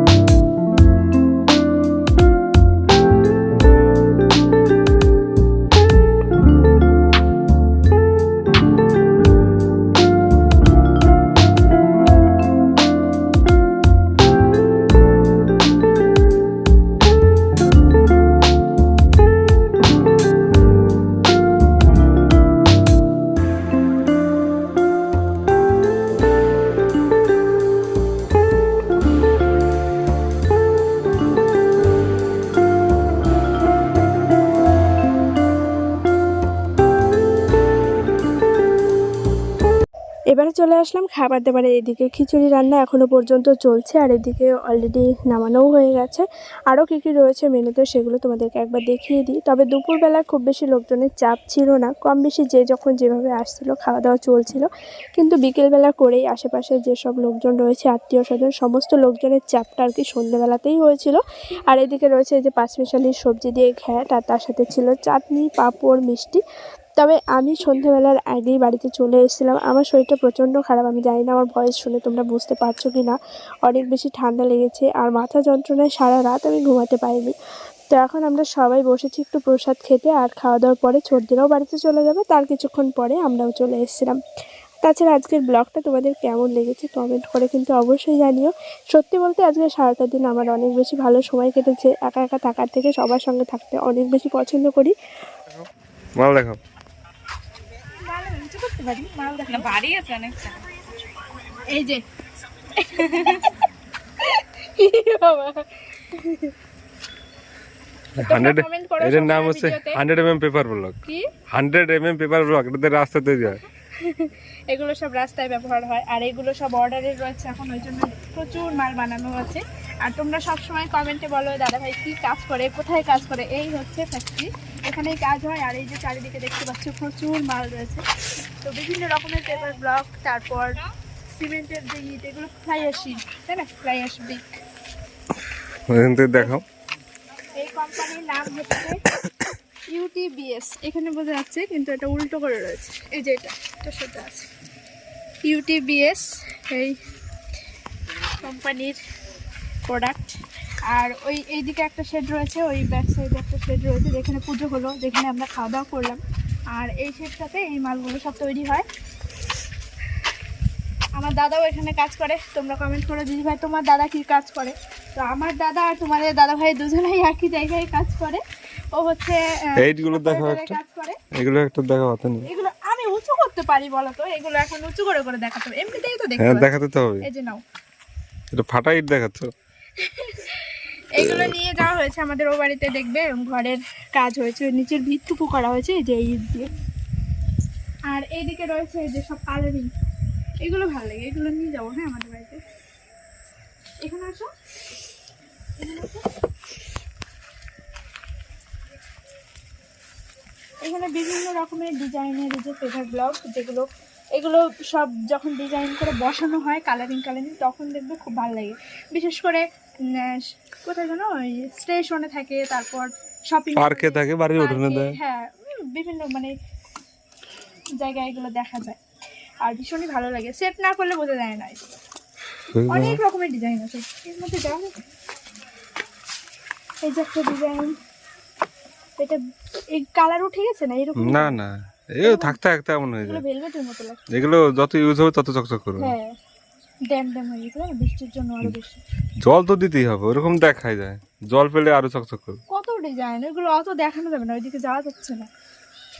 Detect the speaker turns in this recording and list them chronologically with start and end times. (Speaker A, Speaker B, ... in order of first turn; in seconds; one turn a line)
Speaker A: 40.3-66.4
Speaker A: 67.0-77.3
Speaker A: 77.9-84.2
Speaker A: 84.8-94.9
Speaker B: 96.2-96.6
Speaker A: 97.9-100.3
Speaker A: 101.5-102.0
Speaker A: 102.7-103.5
Speaker A: 104.2-106.5
Speaker B: 108.2-111.0
Speaker A: 108.2-110.0
Speaker A: 111.0-111.3
Speaker B: 111.5-113.6
Speaker A: 114.0-128.0
Speaker A: 128.6-130.8
Speaker A: 131.3-134.6
Speaker B: 135.9-136.6
Speaker A: 137.6-139.0
Speaker A: 139.9-144.5
Speaker A: 145.4-147.0
Speaker A: 148.4-149.0
Speaker A: 149.9-150.4
Speaker A: 150.9-156.2
Speaker A: 156.7-158.8
Speaker A: 161.2-168.4
Speaker A: 168.9-171.2
Speaker B: 169.8-170.8
Speaker B: 171.4-172.4
Speaker A: 172.4-177.6
Speaker B: 176.4-177.2
Speaker B: 178.5-179.5
Speaker A: 180.0-186.7
Speaker A: 188.1-189.9
Speaker A: 190.6-192.6
Speaker A: 194.0-194.5
Speaker A: 195.8-196.3
Speaker A: 200.8-216.5
Speaker B: 213.8-215.2
Speaker A: 218.0-219.0
Speaker A: 219.6-221.9
Speaker B: 222.7-223.2
Speaker A: 222.9-225.0
Speaker A: 227.0-227.9
Speaker A: 229.9-231.6
Speaker B: 231.2-233.4
Speaker A: 232.2-232.6
Speaker A: 233.2-234.2
Speaker B: 234.3-236.1
Speaker A: 236.0-236.3
Speaker A: 237.1-239.0
Speaker B: 239.4-242.6
Speaker A: 242.7-245.5